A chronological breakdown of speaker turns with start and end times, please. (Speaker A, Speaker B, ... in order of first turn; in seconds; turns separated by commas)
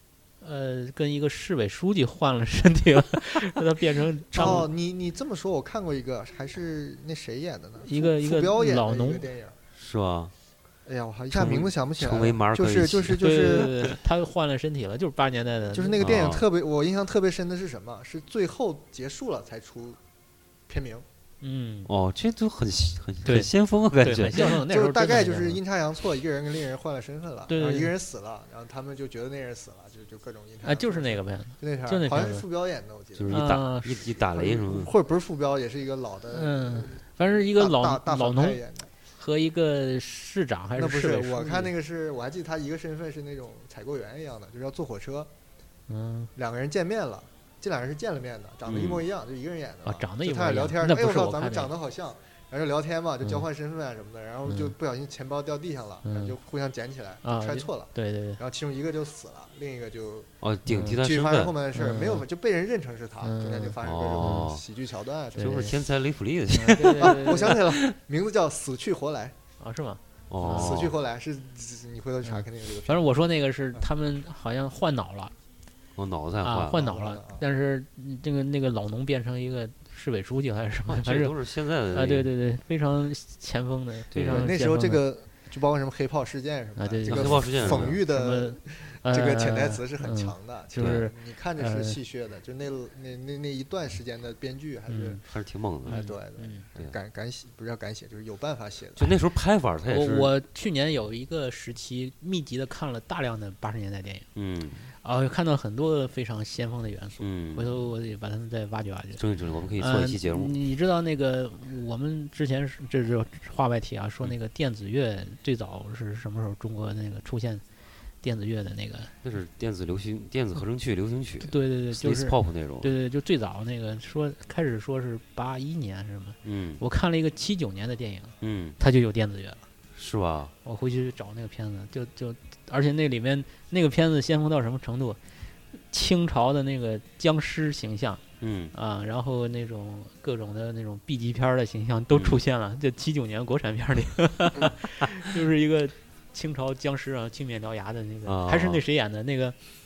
Speaker A: 0.4-4.7, Speaker B: 4.3-9.6, Speaker A: 7.8-9.3, Speaker C: 9.8-10.3, Speaker B: 10.9-13.8, Speaker C: 11.3-13.9, Speaker A: 13.1-16.0, Speaker B: 15.7-20.0, Speaker C: 16.0-16.4, Speaker B: 20.7-21.1, Speaker A: 21.4-21.9, Speaker C: 21.9-24.6, Speaker A: 23.2-25.6, Speaker B: 24.4-33.4, Speaker A: 27.5-27.9, Speaker A: 30.6-32.5, Speaker C: 33.2-34.9, Speaker A: 33.3-34.0, Speaker B: 34.2-38.9, Speaker A: 36.3-41.7, Speaker B: 40.8-45.3, Speaker A: 45.9-46.3, Speaker B: 46.4-60.3, Speaker C: 48.7-49.0, Speaker A: 49.9-51.7, Speaker A: 54.5-54.7, Speaker A: 56.0-56.4, Speaker A: 57.2-58.4, Speaker C: 60.4-61.5, Speaker A: 60.7-61.0, Speaker B: 60.9-65.7, Speaker A: 61.7-62.2, Speaker A: 63.2-64.5, Speaker C: 63.8-64.6, Speaker A: 65.3-65.8, Speaker C: 65.4-67.9, Speaker A: 66.5-67.6, Speaker B: 66.8-69.4, Speaker A: 69.6-70.8, Speaker C: 70.3-71.0, Speaker B: 70.5-73.1, Speaker A: 72.2-75.3, Speaker C: 76.0-76.8, Speaker A: 76.4-81.3, Speaker B: 76.7-77.4, Speaker C: 80.9-82.3, Speaker A: 81.9-85.0, Speaker C: 84.1-84.5, Speaker B: 84.2-95.2, Speaker A: 86.8-92.0, Speaker C: 87.1-88.0, Speaker C: 90.8-91.0, Speaker A: 94.9-95.2, Speaker C: 95.2-96.0, Speaker A: 95.9-96.7, Speaker B: 95.9-99.2, Speaker C: 99.0-100.3, Speaker A: 99.9-104.3, Speaker C: 104.3-104.8, Speaker A: 105.0-109.2, Speaker C: 107.2-107.8, Speaker C: 109.2-110.6, Speaker A: 109.8-117.6, Speaker A: 118.2-119.1, Speaker C: 119.2-122.9, Speaker A: 121.4-129.7, Speaker C: 126.4-126.8, Speaker C: 128.4-128.8, Speaker C: 129.9-130.5, Speaker A: 130.6-149.6, Speaker C: 138.4-138.7, Speaker C: 142.1-142.4, Speaker C: 148.3-148.8